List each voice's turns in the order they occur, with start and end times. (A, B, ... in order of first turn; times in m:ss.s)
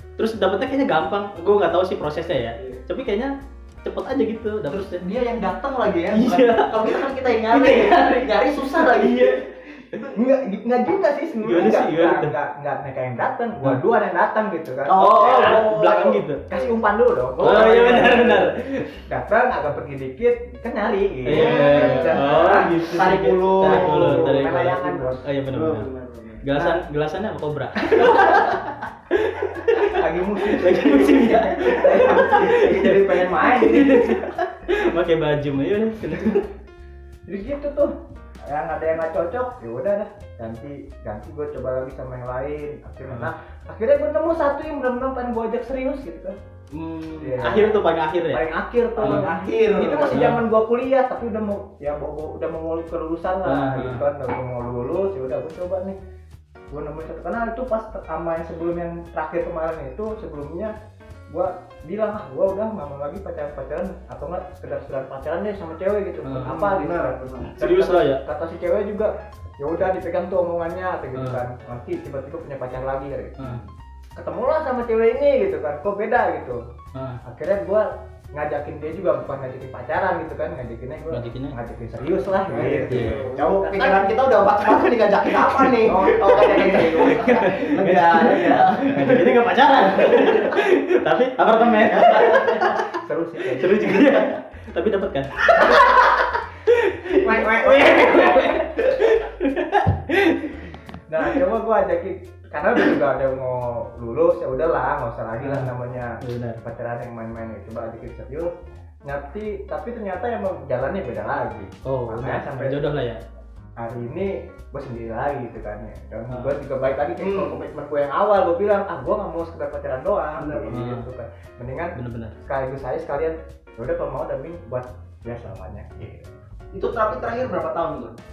0:00.2-0:05.0 A
0:04.7-0:10.1 B
0:06.1-0:09.4 A
0:10.1-0:15.8 C
0:11.4-0:12.3 A
0:14.9-0:16.7 B
0:14.9-0:16.4 A
0:16.5-0:18.5 C
0:17.4-0:18.9 A
0:17.4-0:18.2 B
0:19.0-0:22.8 C
0:21.3-0:25.9 A
0:21.3-0:26.5 B
0:23.6-0:25.2 C
0:26.4-0:36.5 A
0:26.6-0:26.8 C
0:28.0-0:28.6 B
0:29.8-0:34.3 C
0:37.3-0:37.9 C
0:38.5-0:46.4 C
0:46.7-0:47.5 B
0:47.2-0:47.8 C
0:47.4-0:48.4 A
0:48.3-0:56.0 C
0:49.0-0:49.3 A
0:49.0-0:50.3 B
0:50.1-0:50.4 A
0:53.4-0:54.0 A
0:56.7-1:00.8 C
1:01.3-1:16.6 C
1:06.2-1:06.5 A
1:06.4-1:07.6 B
1:07.5-1:08.2 A
1:11.2-1:11.4 A
1:16.9-1:17.2 A
1:17.2-1:24.2 C
1:21.1-1:21.6 A
1:22.4-1:30.6 B
1:22.9-1:23.2 A
1:25.8-1:27.2 C
1:26.2-1:32.9 A
1:31.8-1:32.8 B
1:32.9-1:34.2 C
1:33.6-1:40.7 A
1:33.9-1:34.3 B
1:35.5-1:36.0 C
1:37.1-1:38.7 C
1:41.1-1:48.5 C
1:45.4-1:46.6 A
1:49.0-1:52.9 C
1:51.8-1:53.2 A
1:53.8-2:06.3 C
1:56.3-1:56.6 A
1:57.2-1:57.6 B
2:00.4-2:00.8 B
2:00.7-2:01.1 A
2:02.0-2:02.4 A
2:06.7-2:08.2 B